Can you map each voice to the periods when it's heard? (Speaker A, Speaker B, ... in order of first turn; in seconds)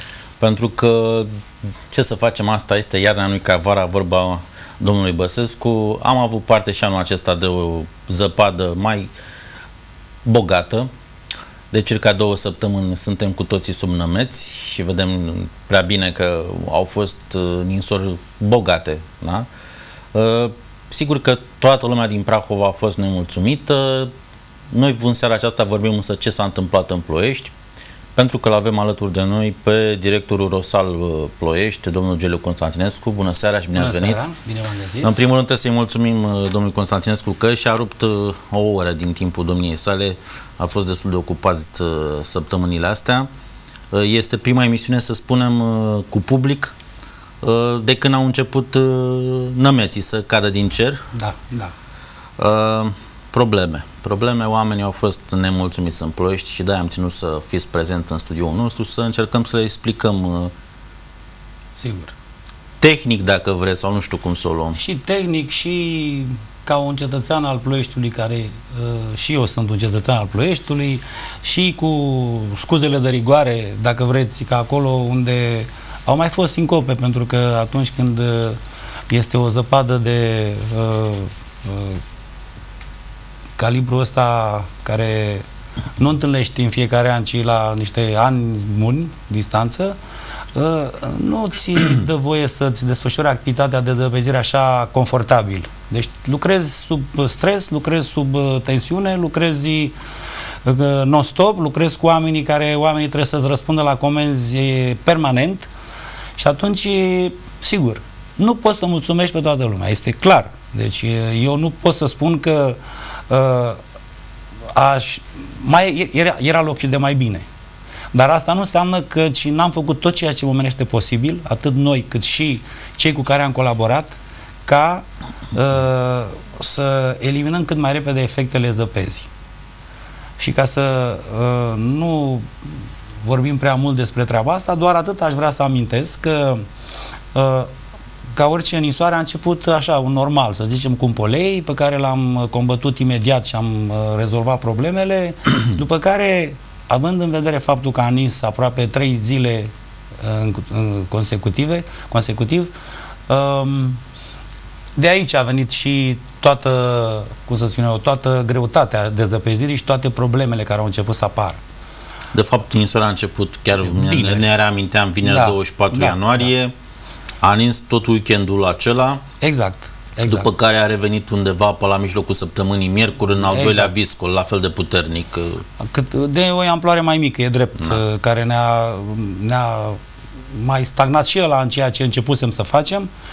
Speaker A: 0.4-1.3, 1.9-9.1, 10.2-10.9, 11.7-19.5, 20.1-24.1, 24.7-27.5, 28.1-34.2, 35.0-43.3, 43.9-46.7, 47.4-51.0, 52.4-60.5, 62.8-64.8, 162.3-166.7, 167.4-169.2, 170.2-175.6
Speaker B: 33.7-35.1, 51.1-51.7, 61.8-62.1, 64.8-82.0, 83.6-85.4, 86.0-90.0, 90.5-99.9, 100.6-105.7, 106.4-112.8, 113.3-113.8, 114.7-117.5, 118.1-129.3, 130.4-132.5, 133.2-136.7, 137.3-137.7, 138.3-152.7, 153.3-154.0, 155.0-161.6, 163.8-164.5, 165.2-166.5, 169.4-170.5, 173.4-173.9, 175.8-180.0, 180.5-183.1